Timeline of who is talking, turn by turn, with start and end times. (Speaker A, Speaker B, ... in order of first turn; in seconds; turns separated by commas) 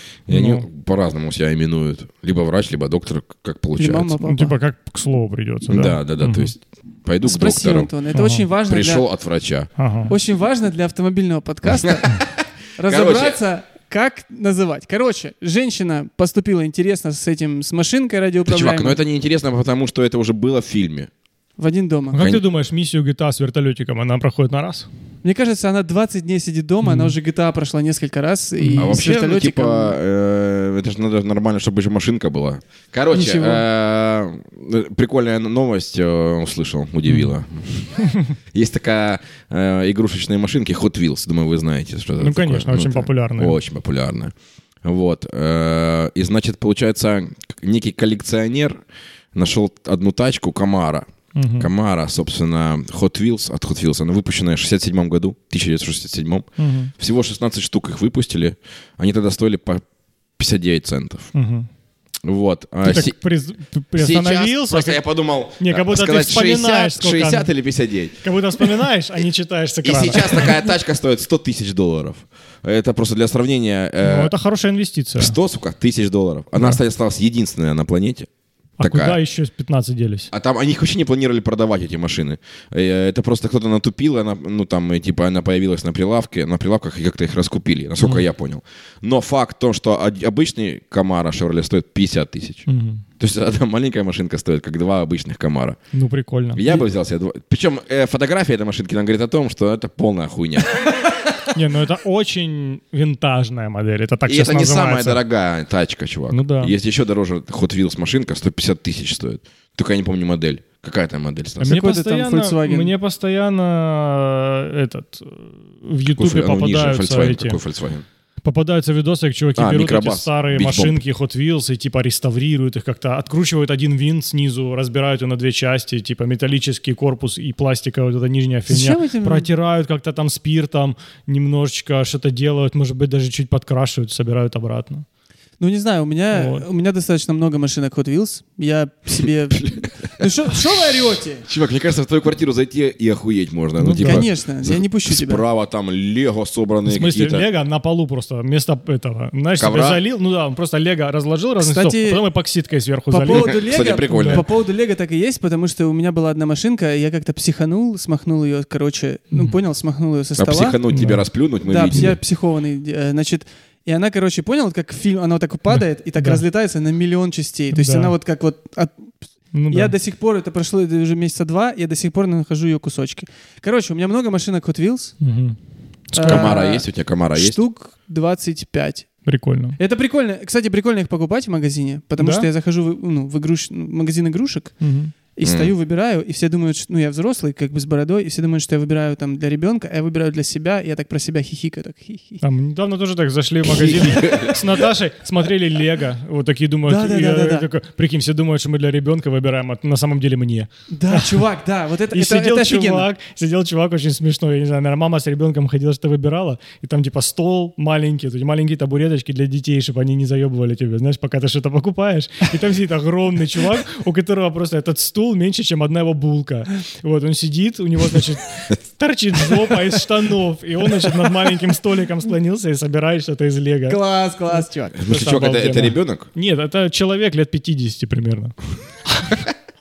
Speaker A: 0.3-4.2, Speaker B: 0.3-0.7, Speaker C: 3.8-4.5, Speaker B: 4.2-6.5, Speaker A: 5.7-7.9, Speaker C: 7.2-9.0, Speaker B: 8.1-8.4, Speaker A: 8.6-9.7, Speaker B: 9.8-10.1, Speaker C: 10.1-12.2, Speaker A: 11.8-13.4, Speaker C: 12.8-19.0, Speaker A: 18.5-21.1, Speaker C: 21.6-22.2, Speaker B: 22.1-24.9, Speaker A: 22.1-22.4, Speaker C: 25.2-29.9, Speaker B: 26.8-27.1, Speaker B: 28.6-29.0, Speaker A: 28.8-38.0, Speaker C: 33.1-33.6, Speaker B: 37.0-37.3, Speaker A: 38.5-48.8, Speaker B: 42.2-43.6, Speaker A: 49.3-59.8, Speaker B: 51.3-51.7, Speaker B: 56.6-56.9, Speaker A: 60.4-61.3, Speaker B: 61.3-61.7, Speaker A: 62.2-63.1, Speaker B: 62.8-65.0, Speaker A: 63.9-68.2, Speaker B: 65.6-67.5, Speaker B: 68.2-70.6, Speaker A: 69.8-74.3, Speaker B: 74.0-75.4, Speaker A: 75.2-78.3, Speaker B: 76.5-76.8, Speaker B: 78.8-80.3, Speaker A: 78.8-79.2, Speaker A: 80.3-92.7, Speaker B: 92.7-93.0, Speaker A: 93.2-95.8, Speaker B: 95.9-96.8, Speaker A: 96.5-100.8, Speaker B: 101.5-105.2, Speaker A: 104.3-111.7, Speaker B: 106.3-106.7, Speaker B: 111.6-117.6, Speaker C: 111.6-112.9, Speaker A: 116.1-118.0, Speaker B: 118.4-135.0, Speaker A: 119.5-121.0, Speaker C: 128.7-129.5, Speaker C: 135.6-141.4, Speaker B: 136.3-136.7, Speaker A: 139.6-139.9, Speaker A: 141.4-147.4, Speaker B: 143.8-144.2, Speaker C: 144.0-145.4, Speaker B: 146.9-154.4, Speaker A: 149.6-150.0, Speaker C: 151.6-152.2, Speaker C: 153.1-160.8, Speaker A: 153.3-154.5, Speaker A: 160.4-162.2, Speaker B: 160.9-161.2, Speaker C: 161.7-169.1, Speaker B: 165.7-166.4, Speaker B: 167.7-168.1, Speaker B: 169.5-169.9, Speaker C: 169.7-175.2, Speaker B: 175.2-175.6, Speaker B: 176.1-176.6, Speaker C: 176.1-179.1, Speaker A: 176.2-177.6, Speaker B: 179.2-179.8, Speaker C: 179.8-184.7, Speaker B: 182.2-182.5, Speaker B: 184.8-185.1, Speaker C: 185.3-192.4, Speaker A: 185.4-185.7, Speaker B: 192.4-201.4, Speaker A: 193.6-194.8, Speaker C: 196.9-197.7, Speaker C: 200.9-203.1, Speaker B: 202.1-224.0, Speaker C: 223.9-225.0, Speaker B: 224.5-228.5, Speaker A: 225.0-226.3